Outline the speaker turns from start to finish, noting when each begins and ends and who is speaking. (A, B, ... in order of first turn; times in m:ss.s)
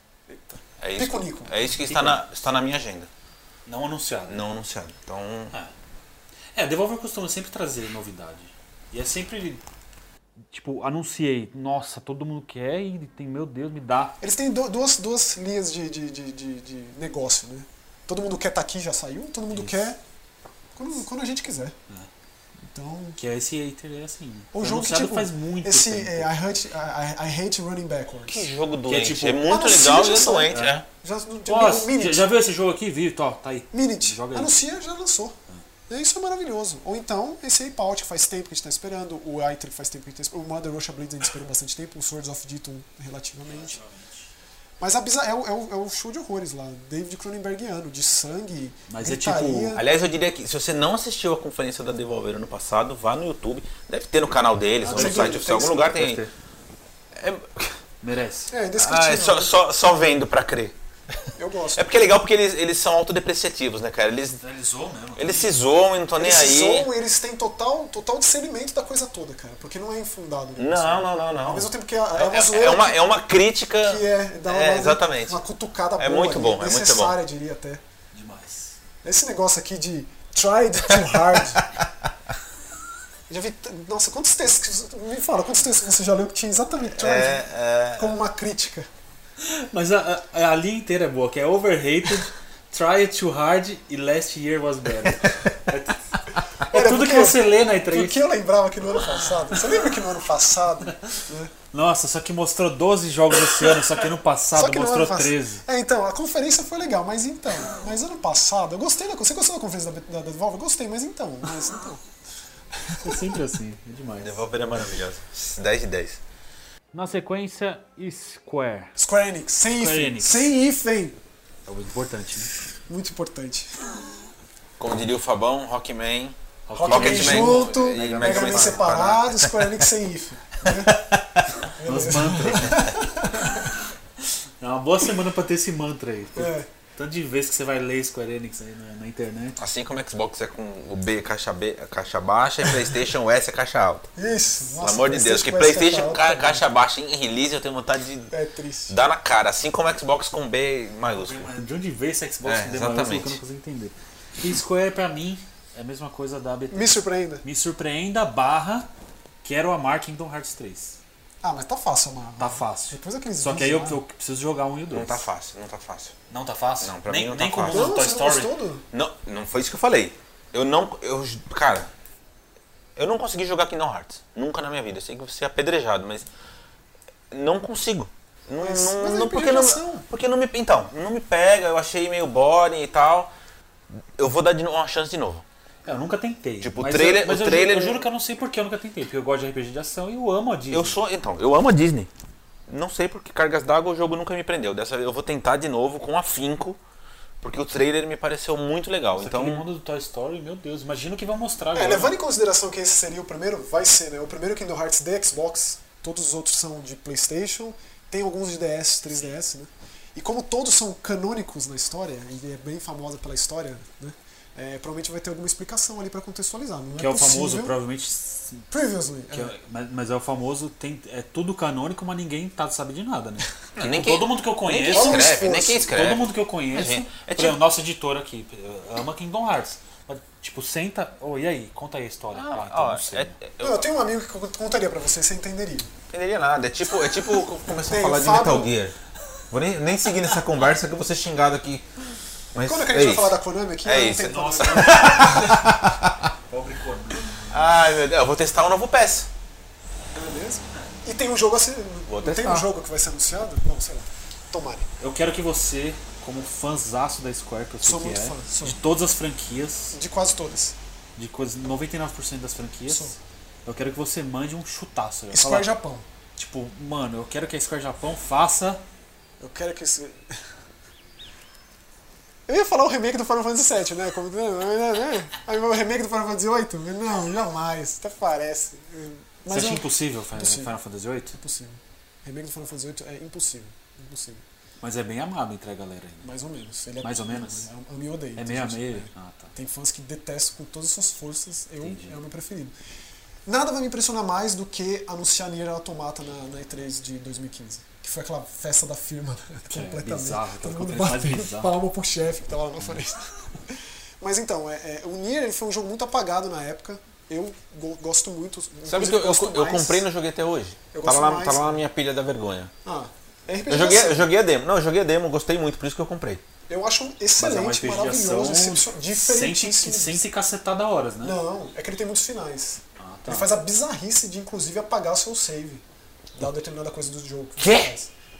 0:00.3-0:01.6 A
0:00.8-0:03.1 B
0:01.8-0:02.2 C
0:03.6-0:04.4 C
0:04.3-0:05.5 B
0:06.6-0:09.6 C
0:10.5-0:14.2 C
0:14.2-0:20.0 A
0:19.5-0:19.9 C
0:20.7-0:21.8 A
0:22.6-0:23.2 A
0:23.2-0:26.3 C
0:24.5-0:28.4 A
0:28.3-0:30.8 B
0:28.9-0:29.5 C
0:29.5-0:32.3 A
0:30.5-0:30.8 C
0:31.5-0:34.6 C
0:33.7-0:35.4 A
0:35.9-0:43.8 A
0:43.4-0:44.3 C
0:44.8-0:49.8 A
0:48.9-0:49.8 C
0:49.8-0:56.2 B
0:54.8-0:56.3 C
0:54.9-0:55.9 A
0:57.1-0:57.8 B
0:58.0-0:58.5 C
0:58.5-1:00.2 A
0:58.8-1:04.4 B
1:01.4-1:02.0 A
1:04.4-1:05.5 C
1:05.2-1:06.9 B
1:06.2-1:13.2 A
1:10.6-1:15.4 B
1:13.8-1:17.8 A
1:16.0-1:17.2 B
1:18.1-1:18.8 C
1:19.0-1:21.6 A
1:23.3-1:27.4 A
1:27.0-1:28.1 B
1:28.0-1:28.9 A
1:29.4-1:38.2 C
1:36.7-1:41.5 A
1:41.7-1:45.6 C
1:44.5-1:52.0 A
1:52.8-1:53.4 A
1:53.0-1:54.6 C
1:54.2-1:56.2 B
1:56.9-1:58.9 C
1:58.9-2:01.2 A
1:59.7-2:00.5 C
2:01.6-2:02.5 C
2:02.9-2:04.0 A
2:04.8-2:06.4 B
2:06.7-2:08.9 C
2:06.7-2:11.0 A
2:06.9-2:09.7 B
2:10.6-2:11.6 B
2:11.8-2:13.7 A
2:11.8-2:12.9 C
2:14.6-2:19.6 C
2:16.4-2:16.7 A
2:19.6-2:24.1 B
2:24.2-2:26.7 A
2:24.8-2:28.3 B
2:28.3-2:29.0 A
2:28.9-2:31.5 B
2:31.1-2:38.9 C
2:32.4-2:33.4 B
2:36.7-2:37.4 A
2:39.4-2:41.0 C
2:41.4-2:44.0 A
2:42.4-2:45.2 C
2:44.9-2:46.1 B
2:46.3-2:48.5 C
2:46.8-2:47.9 B
2:47.7-2:48.8 A
2:48.9-2:51.9 B
2:53.0-2:56.3 B
2:57.3-3:03.3 B
2:58.6-3:00.1 A
3:04.2-3:05.4 B
3:05.8-3:11.0 C
3:06.6-3:08.0 B
3:10.7-3:12.1 B
3:12.7-3:16.8 B
3:17.4-3:19.6 B
3:19.2-3:22.2 C
3:21.7-3:37.7 A
3:37.0-3:38.7 C
3:38.7-3:39.6 A
3:39.3-3:53.4 C
3:43.8-3:47.6 B
3:44.9-3:46.0 A
3:52.4-3:53.9 B
3:53.6-3:55.9 A
3:56.1-3:58.9 B
3:57.9-3:58.7 A
3:59.5-4:01.8 B
4:02.5-4:06.3 B
4:02.6-4:05.7 A
4:04.3-4:05.6 C
4:06.5-4:07.6 C
4:07.5-4:09.3 B
4:10.1-4:14.9 A
4:12.1-4:12.7 B
4:15.0-4:20.0 C
4:17.8-4:18.8 A
4:19.9-4:20.8 A
4:21.2-4:25.7 C
4:22.9-4:23.2 A
4:25.3-4:26.1 A
4:26.4-4:28.8 C
4:29.4-4:30.4 A
4:32.5-4:40.7 A
4:39.5-4:41.4 C
4:41.3-4:44.4 A
4:44.8-4:46.3 C
4:46.2-4:52.7 A
4:47.0-4:47.7 C
4:48.4-4:49.5 C
4:51.8-4:52.2 C
4:53.5-5:10.1 A
4:59.7-5:01.8 C
5:08.9-5:12.7 B
5:10.9-5:11.8 A
5:12.8-5:14.3 A
5:13.7-5:16.4 B
5:16.7-5:20.2 A
5:17.4-5:21.4 C
5:21.2-5:25.8 A
5:23.0-5:23.5 C
5:26.4-5:28.1 A
5:27.6-5:27.9 B